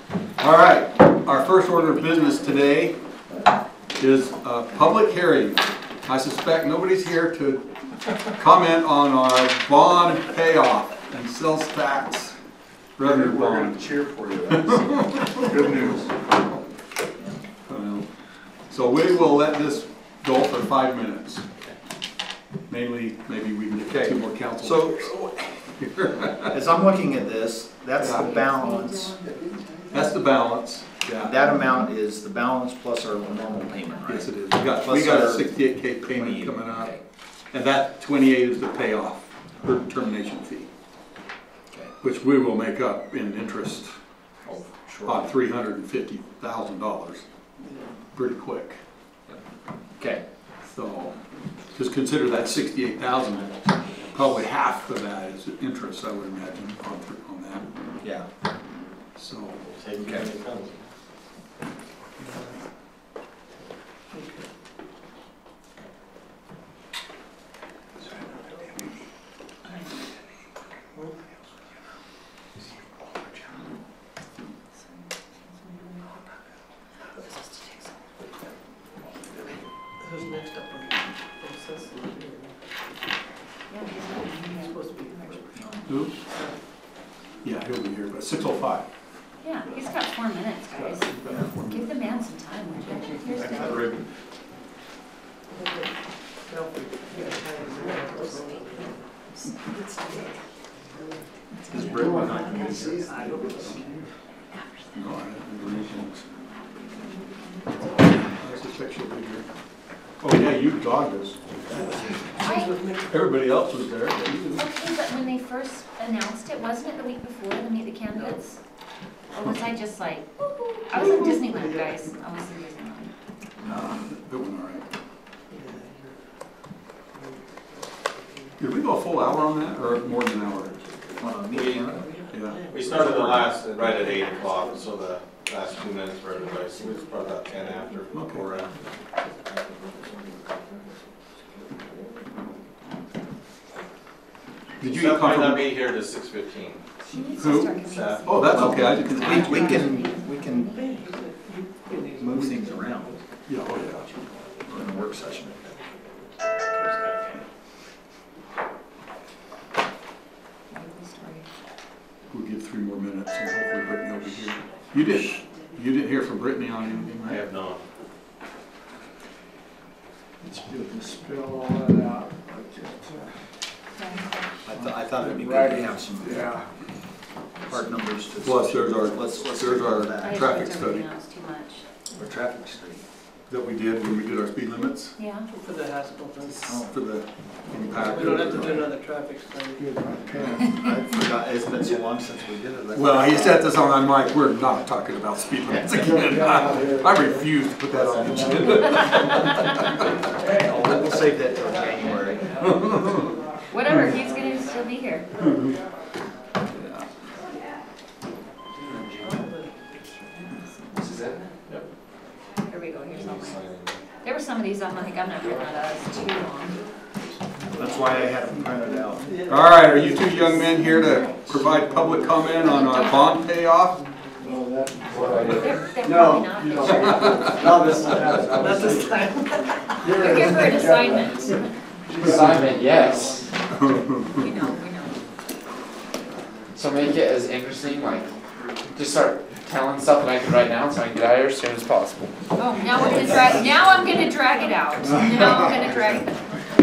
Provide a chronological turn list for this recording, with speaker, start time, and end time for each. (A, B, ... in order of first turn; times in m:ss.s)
0:00.4-0:03.0 A
0:04.0-0:07.6 A
0:08.4-0:12.4 A
0:13.0-0:16.0 A
0:13.0-0:14.8 B
0:15.4-0:16.1 B
0:17.7-0:18.1 A
0:18.7-0:21.4 A
0:22.7-0:25.2 A
0:24.6-0:25.4 C
0:25.8-0:26.6 A
0:26.5-0:29.2 C
0:28.0-0:28.3 A
0:28.0-0:29.8 D
0:29.9-0:31.5 A
0:31.2-0:37.0 C
0:34.1-0:37.0 A
0:37.5-0:40.7 A
0:42.0-0:44.0 A
0:44.4-0:45.3 C
0:45.0-0:47.2 A
0:48.2-0:48.8 A
0:50.0-0:50.2 C
0:50.6-0:51.2 A
0:51.8-0:57.7 A
0:59.2-1:00.2 A
0:59.7-1:00.8 E
1:00.0-1:00.2 C
1:04.1-1:04.5 F
1:08.2-1:08.7 F
1:14.8-1:16.3 D
1:20.0-1:22.6 F
1:23.7-1:25.8 D
1:24.4-1:25.5 F
1:25.9-1:26.2 A
1:27.4-1:28.9 A
1:29.4-1:33.9 D
1:31.1-1:32.0 A
1:33.4-1:34.0 A
1:35.6-1:35.9 F
1:36.5-1:39.0 F
1:37.1-1:40.3 D
1:41.6-1:42.5 D
1:41.7-1:43.7 C
1:41.8-1:44.1 F
1:44.9-1:46.2 A
1:47.0-1:47.9 D
1:48.4-1:49.4 A
1:50.2-1:52.0 A
1:51.8-1:53.1 F
1:52.4-1:52.8 D
1:53.1-1:54.6 A
1:54.6-1:58.6 D
1:59.3-2:00.3 D
2:00.8-2:02.0 F
2:00.9-2:03.1 D
2:03.6-2:04.9 A
2:05.5-2:06.2 F
2:07.1-2:15.1 F
2:08.6-2:10.7 A
2:11.2-2:12.1 C
2:11.5-2:12.0 E
2:12.3-2:13.2 A
2:12.7-2:18.8 E
2:16.3-2:18.0 F
2:18.1-2:18.5 A
2:18.7-2:22.3 F
2:24.8-2:25.7 A
2:24.8-2:26.8 E
2:27.1-2:31.1 D
2:27.4-2:29.5 E
2:27.4-2:30.0 A
2:28.5-2:30.7 C
2:30.7-2:33.2 F
2:32.2-2:33.2 C
2:33.5-2:34.1 A
2:33.9-2:36.1 F
2:34.7-2:35.6 C
2:36.7-2:37.4 F
2:40.7-2:41.5 D
2:42.3-2:47.4 A
2:47.2-2:47.8 E
2:50.4-2:53.3 B
2:53.9-2:54.4 D
2:54.7-2:56.4 C
2:54.7-2:56.6 B
2:57.7-3:00.4 C
2:58.4-3:01.0 A
3:00.2-3:01.8 D
3:02.2-3:03.0 C
3:03.5-3:05.2 A
3:05.2-3:05.5 D
3:05.5-3:06.6 F
3:06.6-3:08.9 A
3:06.7-3:06.9 C
3:07.9-3:09.9 F
3:09.8-3:10.8 B
3:10.4-3:13.7 C
3:12.9-3:20.1 A
3:15.7-3:16.0 C
3:15.8-3:19.2 B
3:20.4-3:22.6 C
3:22.6-3:23.3 A
3:23.7-3:25.3 D
3:25.4-3:25.7 A
3:29.1-3:29.7 F
3:30.2-3:31.2 D
3:32.6-3:33.7 D
3:33.1-3:34.0 E
3:34.2-3:36.8 D
3:37.8-3:39.3 C
3:38.9-3:39.3 B
3:39.3-3:40.9 F
3:39.5-3:44.0 A
3:40.9-3:41.4 D
3:42.6-3:43.4 D
3:44.4-3:49.2 B
3:45.2-3:45.6 G
3:45.4-3:47.6 D
3:48.4-3:50.5 F
3:50.0-3:53.4 B
3:50.0-3:51.8 D
3:52.2-3:53.5 G
3:53.7-3:54.5 A
3:54.3-3:55.2 D
3:56.7-3:58.3 G
3:58.9-4:02.3 G
4:02.6-4:06.4 D
4:03.0-4:03.6 G